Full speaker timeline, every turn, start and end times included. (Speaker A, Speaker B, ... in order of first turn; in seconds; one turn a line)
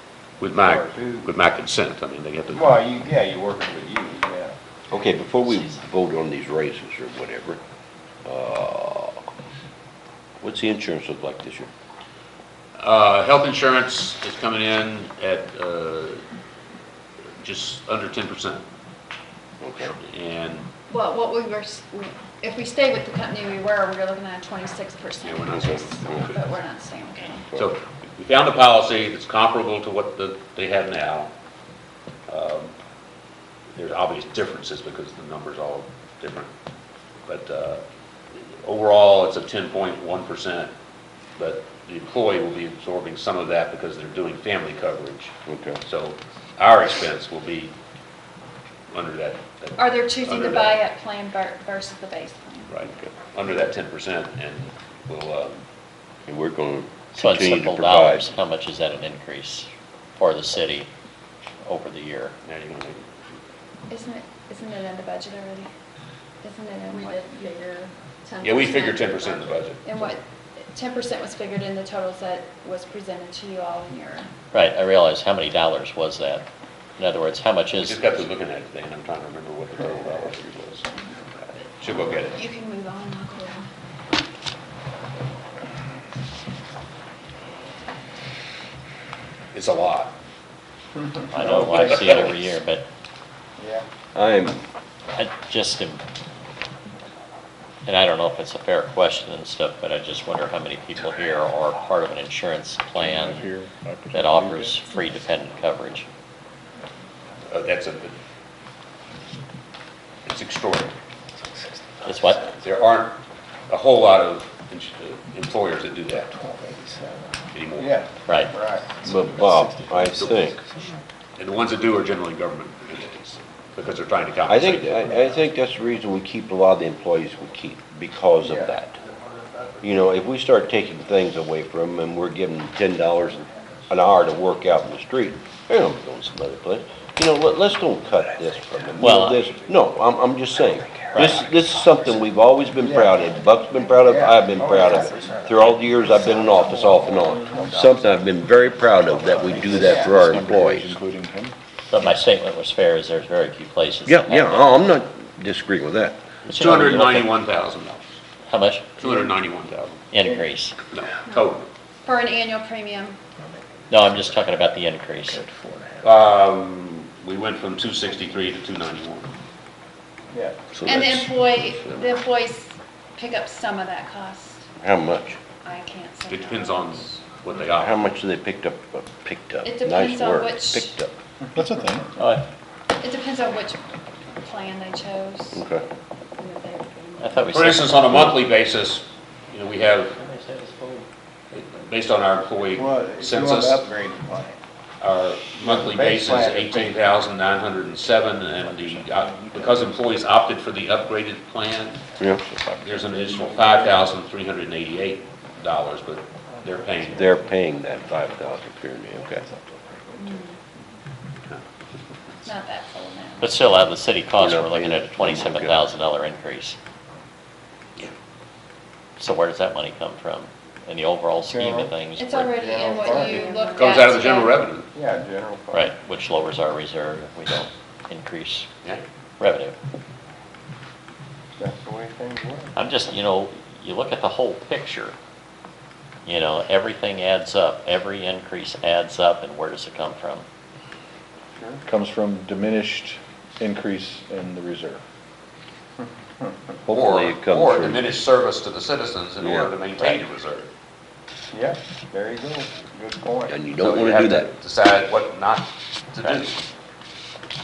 Speaker A: 0.4-2.8
Speaker B: 0.6-1.3
Speaker B: 2.5-4.5
Speaker C: 4.9-7.6
Speaker D: 5.5-5.8
Speaker C: 8.2-9.2
Speaker C: 10.4-11.7
Speaker A: 12.8-16.2
Speaker A: 17.4-18.6
Speaker C: 19.6-19.9
Speaker A: 19.9-20.7
Speaker E: 20.9-27.5
Speaker A: 25.2-26.4
Speaker C: 25.5-26.3
Speaker A: 27.5-31.3
Speaker A: 32.3-32.7
Speaker A: 33.7-36.5
Speaker A: 37.2-37.8
Speaker A: 38.4-40.7
Speaker A: 41.4-45.3
Speaker C: 45.5-45.8
Speaker A: 45.8-47.7
Speaker A: 48.9-50.8
Speaker E: 49.8-52.7
Speaker A: 52.7-55.6
Speaker C: 56.2-58.2
Speaker D: 57.1-60.9
Speaker D: 61.6-62.3
Speaker A: 62.4-63.2
Speaker E: 63.9-65.7
Speaker E: 66.4-67.7
Speaker F: 66.9-69.0
Speaker A: 68.4-69.8
Speaker E: 68.7-69.1
Speaker E: 69.8-74.3
Speaker D: 74.5-76.5
Speaker D: 77.0-78.2
Speaker A: 77.8-82.4
Speaker E: 80.9-81.7
Speaker E: 82.3-83.7
Speaker A: 89.5-90.2
Speaker D: 91.3-92.8
Speaker B: 91.4-91.7
Speaker A: 91.7-92.4
Speaker B: 93.6-93.8
Speaker C: 94.1-94.6
Speaker D: 95.1-96.0
Speaker D: 97.8-103.5
Speaker G: 102.9-104.8
Speaker D: 104.1-106.0
Speaker A: 107.5-108.2
Speaker A: 110.2-110.9
Speaker D: 112.0-112.5
Speaker A: 112.6-116.3
Speaker A: 117.5-118.0
Speaker B: 117.8-118.8
Speaker D: 118.3-118.5
Speaker C: 119.0-120.6
Speaker A: 121.4-125.2
Speaker C: 124.5-129.0
Speaker B: 128.4-128.7
Speaker C: 129.8-151.0
Speaker D: 139.0-139.4
Speaker B: 142.8-143.2
Speaker B: 143.9-145.3
Speaker B: 146.2-147.8
Speaker G: 149.1-151.5
Speaker B: 149.7-150.3
Speaker D: 151.9-154.7
Speaker C: 154.1-156.2
Speaker D: 156.5-157.3
Speaker A: 156.5-158.2
Speaker D: 158.5-158.9
Speaker A: 159.0-160.0
Speaker D: 160.1-160.8
Speaker A: 160.9-161.7
Speaker E: 162.0-163.2
Speaker D: 163.9-165.4
Speaker A: 166.0-169.3
Speaker B: 170.3-170.6
Speaker C: 170.7-172.1
Speaker E: 170.8-174.7
Speaker C: 174.8-175.4
Speaker E: 175.6-177.0
Speaker A: 176.3-178.1
Speaker C: 177.8-181.1
Speaker E: 179.6-180.9
Speaker G: 181.5-182.1
Speaker D: 182.2-182.4
Speaker E: 183.0-183.8
Speaker E: 184.4-185.6
Speaker C: 185.5-185.8
Speaker E: 186.4-187.5
Speaker D: 187.2-188.4
Speaker A: 187.5-190.1
Speaker D: 190.1-191.1
Speaker A: 191.5-193.9
Speaker B: 192.7-194.6
Speaker A: 195.0-202.0
Speaker B: 195.6-197.0
Speaker G: 198.6-200.2
Speaker G: 202.2-203.5
Speaker A: 202.8-207.3
Speaker C: 207.1-209.4
Speaker E: 210.2-210.6
Speaker E: 212.4-213.5
Speaker D: 213.4-216.8
Speaker C: 214.4-215.8
Speaker D: 219.2-222.7
Speaker B: 221.5-221.9
Speaker E: 222.2-224.7
Speaker B: 222.5-223.5
Speaker A: 223.1-224.9
Speaker B: 224.9-225.9
Speaker D: 225.7-228.7
Speaker D: 229.4-229.8
Speaker B: 231.6-232.7
Speaker D: 232.8-235.1
Speaker D: 236.2-240.4
Speaker G: 241.8-245.0
Speaker C: 246.9-248.1
Speaker A: 246.9-250.7
Speaker C: 249.4-249.7
Speaker B: 251.5-253.5
Speaker C: 253.5-254.5
Speaker A: 253.7-256.6